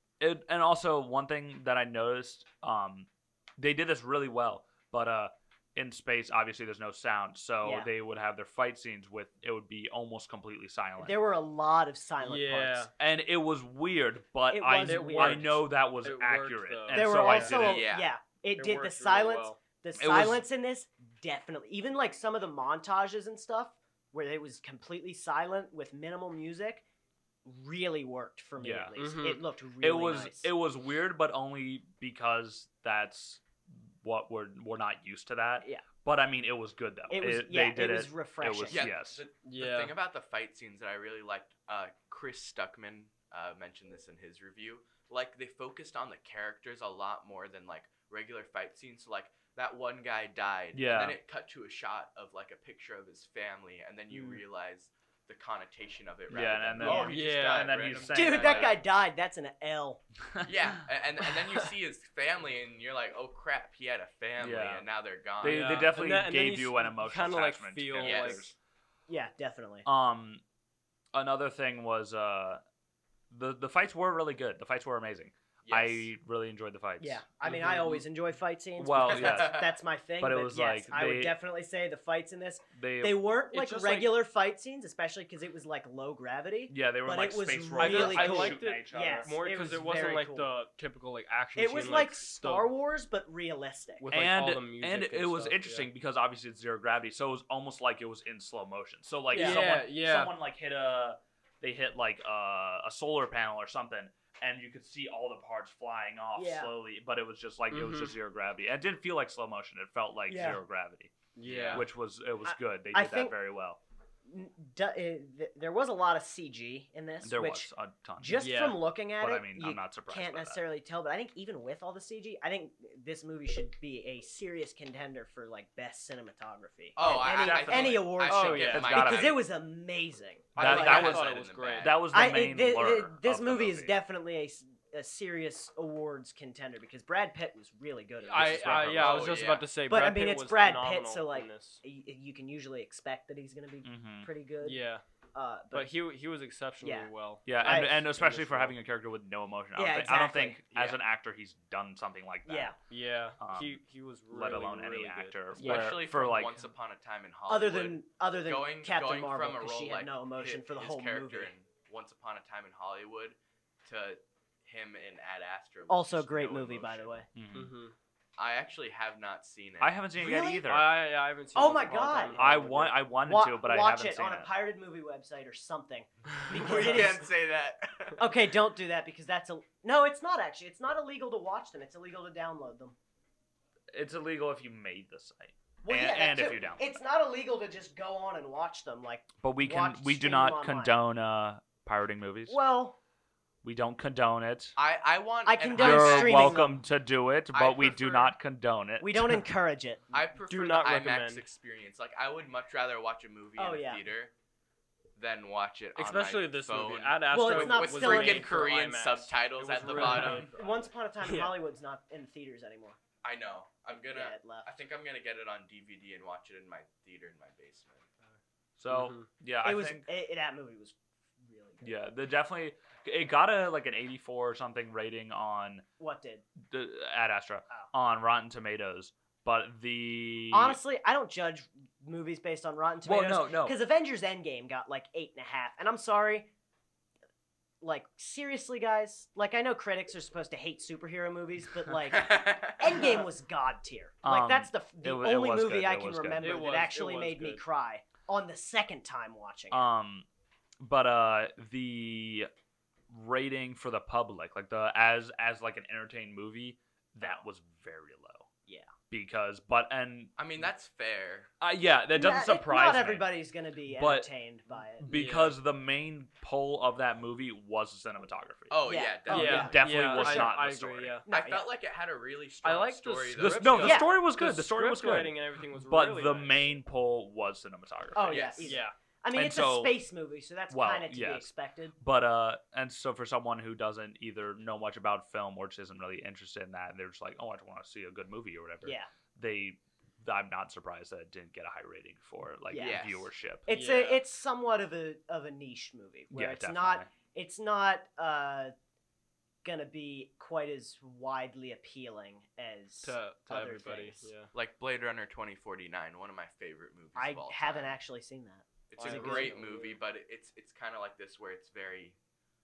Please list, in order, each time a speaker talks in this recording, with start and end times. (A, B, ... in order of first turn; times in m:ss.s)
0:00.2-0:11.2 A
0:07.6-0:07.9 B
0:11.0-0:12.9 B
0:12.2-0:12.9 C
0:13.0-0:17.9 A
0:14.5-0:15.6 B
0:14.8-0:17.5 C
0:16.9-0:26.8 B
0:17.4-0:18.1 D
0:18.6-0:19.6 C
0:20.0-0:20.4 A
0:27.4-0:30.5 B
0:28.6-0:29.0 A
0:29.0-0:29.4 C
0:29.8-0:33.4 A
0:34.0-0:39.2 A
0:37.1-0:38.9 B
0:38.7-0:58.8 D
0:39.4-0:39.9 C
0:50.7-0:51.2 A
0:56.3-0:58.8 A
0:56.8-0:57.1 B
0:56.8-0:58.0 C
0:58.1-1:00.0 B
1:00.4-1:06.0 D
1:04.4-1:04.9 A
1:05.4-1:08.5 A
1:05.4-1:08.5 C
1:08.0-1:08.5 D
1:09.1-1:09.8 B
1:09.8-1:10.4 A
1:11.1-1:12.6 A
1:13.3-1:17.2 A
1:15.6-1:16.1 D
1:17.0-1:30.5 B
1:17.4-1:18.0 C
1:18.8-1:19.7 A
1:19.0-1:19.7 D
1:20.2-1:21.4 A
1:22.7-1:23.2 A
1:23.5-1:24.2 C
1:26.7-1:29.4 A
1:27.8-1:32.7 C
1:31.6-1:34.0 B
1:34.0-1:35.9 C
1:34.1-1:51.1 A
1:39.3-1:39.7 B
1:39.3-1:40.3 C
1:46.3-1:46.7 B
1:47.7-1:48.2 C
1:50.3-1:50.6 B
1:51.3-1:51.8 C
1:51.4-1:51.8 D
1:51.7-1:53.8 A
1:52.4-1:53.3 B
1:54.3-2:11.2 B
1:57.2-1:58.5 A
1:58.4-1:58.8 C
1:59.2-2:00.6 A
2:07.0-2:09.4 D
2:07.0-2:09.4 A
2:08.3-2:09.0 C
2:10.5-2:12.0 D
2:10.6-2:14.0 A
2:10.6-2:12.0 C
2:12.1-2:19.3 B
2:18.2-2:21.8 C
2:18.3-2:19.4 A
2:18.9-2:19.7 D
2:19.8-2:24.8 B
2:23.8-2:24.3 A
2:24.6-2:25.0 C
2:25.3-2:25.9 B
2:25.7-2:28.8 C
2:26.8-2:28.0 B
2:27.4-2:32.7 A
2:29.8-2:30.6 B
2:32.4-2:32.8 B
2:32.9-2:35.9 C
2:33.4-2:36.6 A
2:35.5-2:47.2 D
2:35.6-2:35.9 B
2:37.5-2:41.5 B
2:45.9-2:47.2 B
2:47.3-2:47.7 A
2:47.5-2:47.9 C
2:48.4-2:50.0 D
2:49.8-2:50.9 A
2:50.2-2:50.7 B
2:50.7-2:53.0 C
2:51.5-2:52.6 B
2:52.3-2:54.5 A
2:53.2-2:57.3 B
2:56.5-2:58.3 D
2:58.2-3:03.0 B
3:03.9-3:06.8 A
3:05.8-3:11.0 B
3:09.4-3:12.6 A
3:12.5-3:13.0 B
3:13.6-3:14.8 A
3:14.8-3:16.6 D
3:15.4-3:16.8 B
3:15.7-3:19.4 A
3:17.5-3:18.3 D
3:19.0-3:20.0 B
3:20.1-3:24.3 D
3:20.4-3:21.4 C
3:23.6-3:24.0 B
3:25.2-3:30.8 D
3:26.0-3:30.6 C
3:27.3-3:28.7 B
3:29.9-3:33.0 B
3:31.2-3:31.5 C
3:33.2-3:38.1 D
3:33.9-3:34.7 B
3:38.8-3:40.1 A
3:38.9-3:39.3 C
3:39.6-3:41.9 B
3:41.8-3:45.8 A
3:46.0-3:46.4 B
3:46.6-3:50.8 A
3:50.5-3:56.5 B
3:53.0-3:53.8 A
3:57.8-4:09.9 B
4:02.1-4:03.2 D
4:04.2-4:06.5 A
4:06.4-4:07.6 C
4:09.7-4:10.2 A
4:10.8-4:12.5 A
4:13.1-4:18.5 A
4:19.1-4:20.3 A
4:20.4-4:21.5 D
4:21.6-4:23.3 A
4:22.1-4:25.1 B
4:23.9-4:24.3 A
4:25.0-4:31.2 A
4:25.1-4:25.6 C
4:28.7-4:30.4 D
4:28.8-4:30.5 B
4:29.3-4:31.3 C
4:31.2-4:31.7 B
4:31.3-4:34.0 D
4:32.6-4:36.7 C
4:33.4-4:38.5 A
4:33.8-4:34.2 B
4:38.1-4:42.0 B
4:38.2-4:38.8 D
4:38.6-4:38.9 C
4:39.3-4:39.9 A
4:40.7-4:53.7 A
4:52.7-4:53.1 B
4:52.7-4:53.3 D
4:53.6-4:58.7 B
4:53.7-4:54.2 C
4:56.3-4:57.1 A
4:59.6-5:04.3 B
5:03.0-5:04.5 C
5:04.5-5:07.9 D
5:07.2-5:09.6 B
5:08.9-5:12.2 D
5:08.9-5:10.0 C